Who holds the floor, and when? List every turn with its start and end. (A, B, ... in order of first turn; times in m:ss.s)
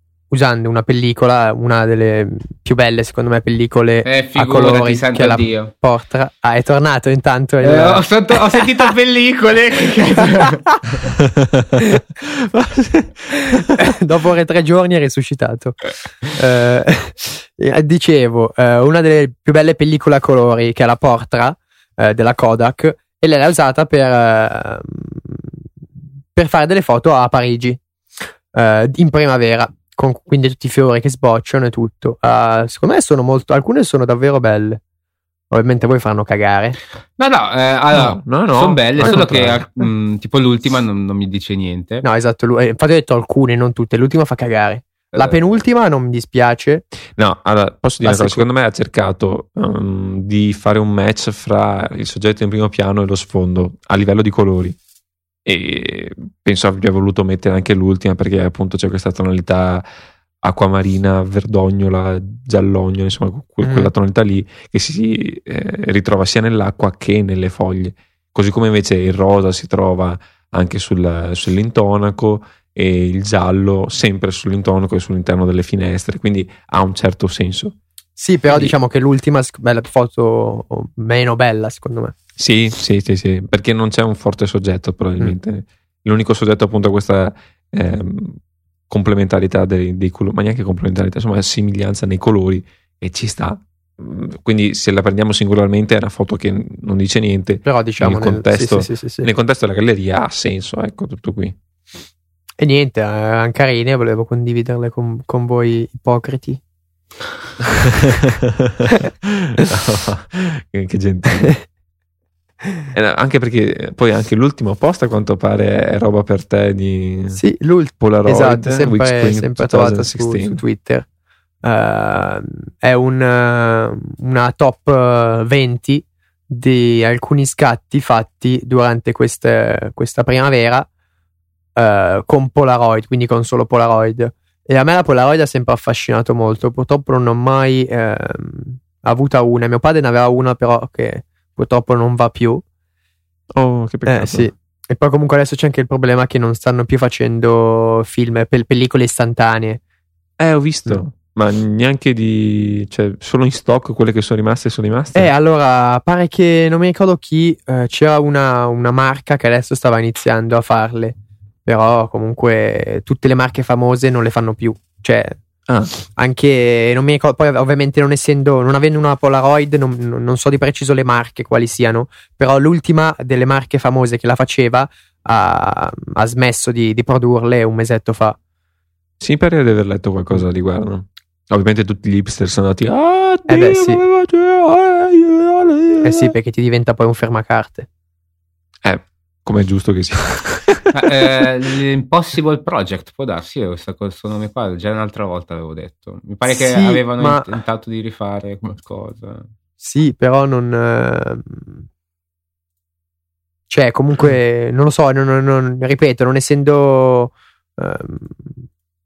0:00.3-0:08.6 A
0:04.0-0:05.7 B
0:07.6-0:11.0 B
0:11.2-0:13.9 C
0:13.4-0:25.5 A
0:26.3-0:27.8 A
0:28.5-0:34.8 A
0:35.5-0:36.8 A
0:37.2-0:42.0 B
0:37.9-0:39.7 C
0:42.0-0:46.8 A
0:47.2-0:54.8 C
0:48.0-0:48.4 A
0:55.4-0:59.8 C
1:00.4-1:17.7 C
1:03.6-1:03.9 A
1:18.2-1:22.1 A
1:22.4-1:41.6 C
1:37.6-1:39.3 A
1:42.6-1:46.6 A
1:47.7-1:51.6 C
1:52.9-1:57.4 C
1:57.3-2:01.0 A
1:58.0-2:00.6 C
2:01.6-2:10.9 A
2:11.8-2:22.6 A
2:23.6-2:24.5 C
2:24.0-2:29.8 A
2:30.4-2:35.3 C
2:35.1-2:45.4 A
2:46.2-2:58.4 A
2:59.2-3:06.3 C
3:03.5-3:04.0 A
3:06.0-3:07.9 A
3:08.8-3:11.4 C
3:10.9-3:19.4 B
3:16.4-3:17.5 A
3:19.8-3:21.8 A
3:23.7-3:28.6 A